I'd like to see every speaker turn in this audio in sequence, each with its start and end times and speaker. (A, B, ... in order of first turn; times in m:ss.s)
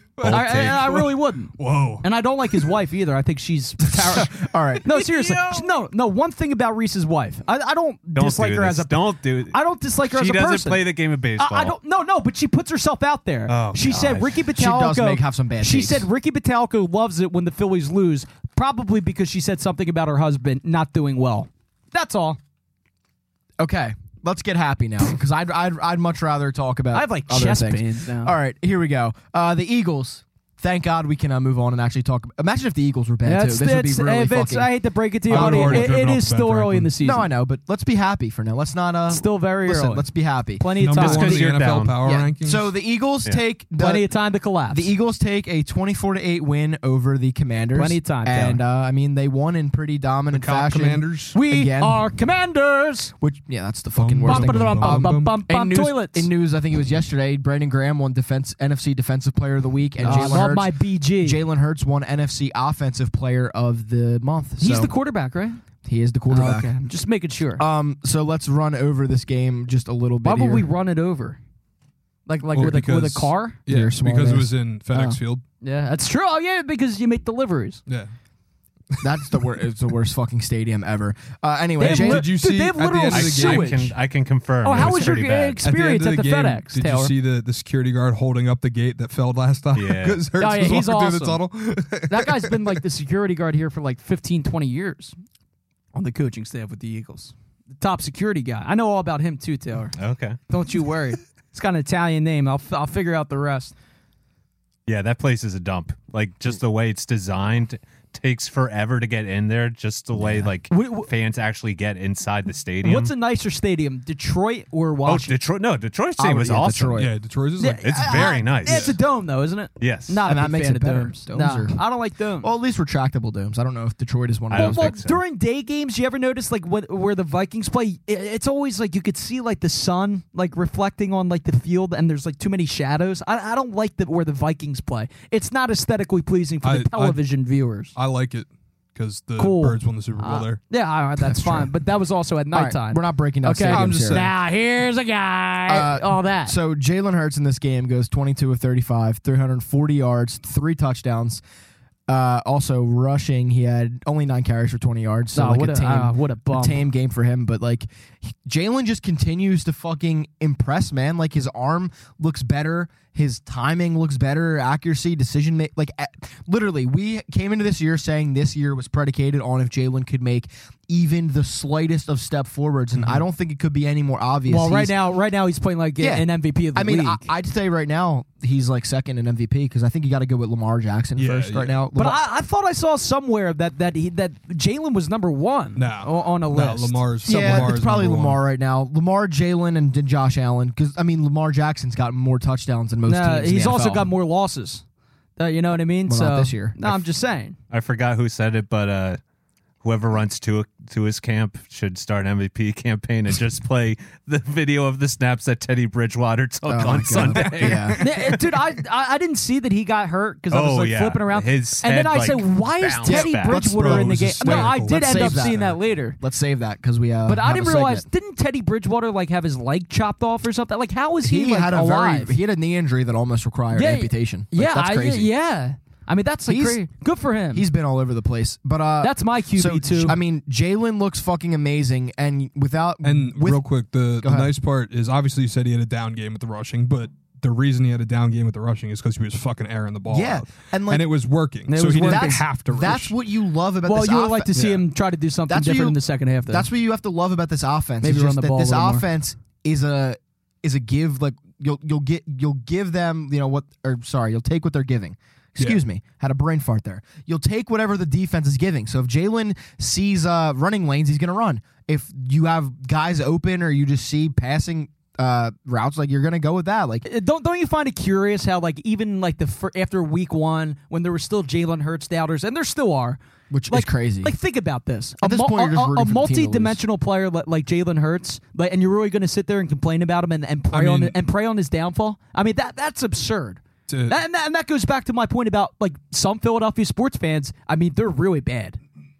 0:00.2-0:02.0 A
0:00.2-0:01.0 B
0:00.2-0:22.4 C
0:03.8-0:04.9 D
0:05.2-0:05.6 B
0:08.2-0:11.7 B
0:13.5-0:14.4 B
0:14.5-0:16.1 D
0:23.6-0:34.7 D
0:26.9-0:28.3 C
0:33.2-0:37.3 C
0:35.3-0:35.9 D
0:35.3-0:36.9 A
0:37.0-0:40.6 D
0:39.1-0:41.4 C
0:40.8-0:42.6 A
0:40.9-0:42.0 B
0:42.0-0:44.1 D
0:43.8-0:44.9 C
0:44.7-0:52.0 D
0:47.7-0:48.6 C
0:50.3-0:51.3 A
0:51.3-0:53.1 C
0:53.2-1:04.9 D
0:54.0-0:55.4 A
0:54.2-0:56.3 C
1:00.0-1:00.5 A
1:00.0-1:01.4 C
1:04.6-1:05.6 C
1:05.8-1:06.7 D
1:06.3-1:07.6 C
1:07.6-1:10.6 D
1:10.2-1:11.4 C
1:12.3-1:13.6 C
1:12.5-1:15.4 A
1:13.7-1:15.2 D
1:15.6-1:17.8 C
1:19.0-1:22.3 D
1:21.8-1:23.9 C
1:21.8-1:23.9 A
1:23.1-1:25.6 B
1:24.6-1:27.1 C
1:25.6-1:32.8 A
1:29.7-1:30.2 B
1:30.4-1:31.4 C
1:32.1-1:35.1 C
1:35.9-1:40.0 C
1:40.0-1:40.4 B
1:40.5-1:43.7 C
1:44.9-1:53.1 B
1:50.2-1:50.5 D
1:50.7-1:51.1 C
1:52.8-1:55.4 C
1:55.0-1:57.0 B
1:56.2-1:57.1 D
1:57.0-1:58.9 A
1:57.6-2:02.5 C
1:57.8-1:59.0 B
1:59.8-2:00.2 B
2:00.2-2:01.8 D
2:02.4-2:05.0 D
2:04.5-2:05.2 B
2:04.5-2:17.9 C
2:16.6-2:17.2 A
2:17.9-2:20.6 A
2:19.4-2:26.5 C
2:22.5-2:24.3 D
2:23.7-2:24.3 A
2:25.7-2:31.4 D
2:32.1-2:54.9 D
2:35.3-2:36.8 C
2:54.5-2:57.2 C
2:56.0-3:02.2 D
3:01.2-3:01.8 A
3:01.9-3:07.6 C
3:05.8-3:08.4 A
3:07.2-3:14.1 D
3:13.0-3:14.8 C
3:15.4-3:17.6 C
3:16.0-3:16.9 D
3:17.7-3:19.2 B
3:19.8-3:28.1 B
3:26.7-3:28.0 D
3:27.1-3:28.0 A
3:28.0-3:36.2 C
3:30.5-3:33.6 B
3:33.0-3:38.0 D
3:33.6-3:35.5 A
3:37.2-3:42.4 C
3:41.2-3:45.3 D
3:43.7-3:47.6 C
3:46.5-3:46.8 D
3:47.5-3:53.6 D
3:49.0-3:50.2 C
3:53.0-4:03.1 A
3:54.2-3:54.5 D
4:00.1-4:01.0 D
4:01.7-4:02.4 C
4:02.0-4:04.7 D
4:03.8-4:06.7 C
4:05.5-4:27.0 D
4:08.0-4:09.0 C
4:27.0-4:33.2 C
4:33.5-4:34.3 D
4:33.7-4:48.8 C
4:35.2-4:36.8 D
4:40.7-4:41.2 A
4:43.9-4:44.2 A